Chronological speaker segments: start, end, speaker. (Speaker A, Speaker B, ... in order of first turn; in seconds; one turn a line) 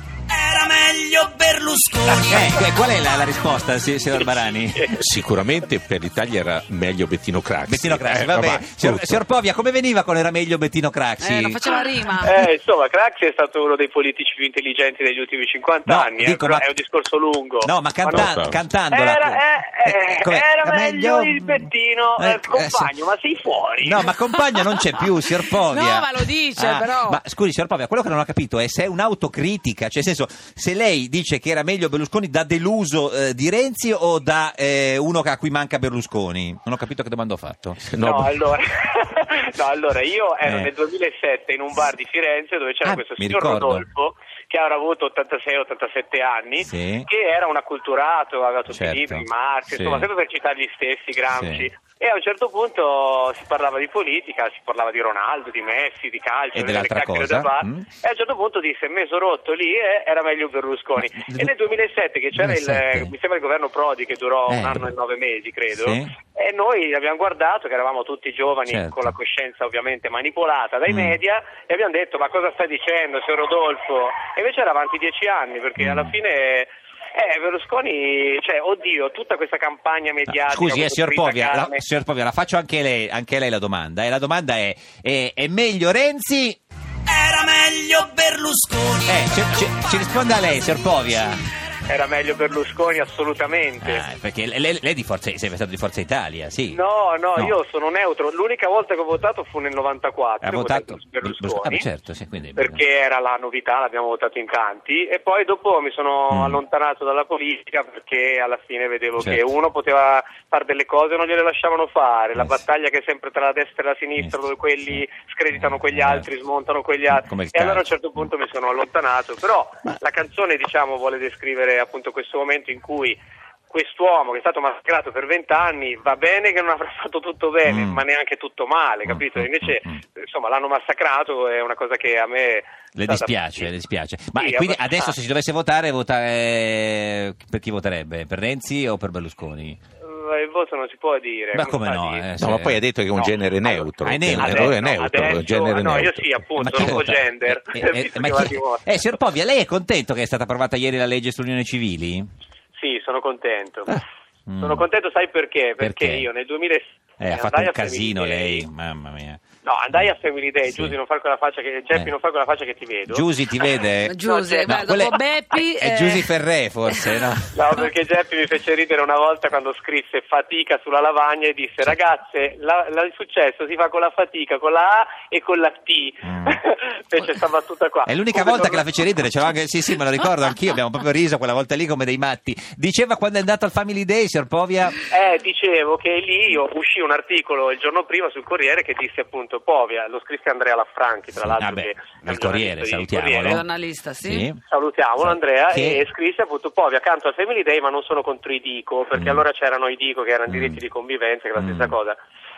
Speaker A: 0.3-2.9
Speaker B: 2.2-4.9
Speaker C: 4.9-9.2
Speaker B: 7.7-11.8
Speaker D: 11.2-12.3
Speaker E: 12.2-18.3
Speaker B: 15.9-16.7
Speaker B: 17.6-22.9
Speaker C: 18.1-18.6
Speaker E: 18.9-24.1
Speaker B: 23.8-37.8
Speaker D: 25.4-27.2
Speaker C: 37.8-38.3
Speaker E: 38.0-81.8
Speaker B: 40.4-40.7
Speaker B: 42.8-43.9
Speaker B: 46.6-47.1
Speaker B: 48.7-50.1
Speaker B: 51.3-51.7
Speaker B: 56.5-57.9
Speaker B: 61.0-61.5
Speaker B: 62.3-63.1
Speaker B: 64.5-64.9
Speaker B: 65.7-66.1
Speaker B: 68.7-69.1
Speaker B: 70.9-71.2
Speaker B: 75.8-76.2
Speaker B: 80.3-86.6
Speaker A: 87.1-91.4
Speaker B: 89.1-91.4
Speaker E: 91.9-94.0
Speaker B: 93.8-96.8
Speaker E: 96.7-101.9
Speaker B: 100.4-102.8
Speaker E: 102.6-123.2
Speaker B: 106.3-106.6
Speaker B: 109.2-109.4
Speaker B: 112.3-112.6
Speaker B: 114.2-116.3
Speaker B: 117.1-117.8
Speaker E: 123.7-133.7
Speaker B: 127.7-128.0
Speaker B: 129.1-130.0
Speaker B: 133.0-139.8
Speaker E: 134.4-135.2
Speaker E: 140.1-142.3
Speaker B: 141.5-142.8
Speaker C: 142.4-146.3
Speaker E: 143.2-148.8
Speaker B: 144.0-144.8
Speaker B: 146.6-152.3
Speaker E: 152.8-154.0
Speaker B: 154.5-154.9
Speaker E: 154.6-158.7
Speaker B: 155.8-156.3
Speaker B: 157.2-159.4
Speaker E: 159.7-165.2
Speaker B: 160.7-161.0
Speaker B: 163.1-167.6
Speaker D: 164.0-166.3
Speaker D: 166.9-167.2
Speaker E: 167.5-178.9
Speaker B: 176.2-176.6
Speaker B: 178.1-185.0
Speaker E: 185.1-193.6
Speaker B: 191.5-193.6
Speaker D: 193.4-194.5
Speaker B: 194.2-194.6
Speaker E: 194.6-202.2
Speaker B: 195.2-196.0
Speaker B: 199.2-199.4
Speaker B: 200.5-200.8
Speaker B: 201.6-201.9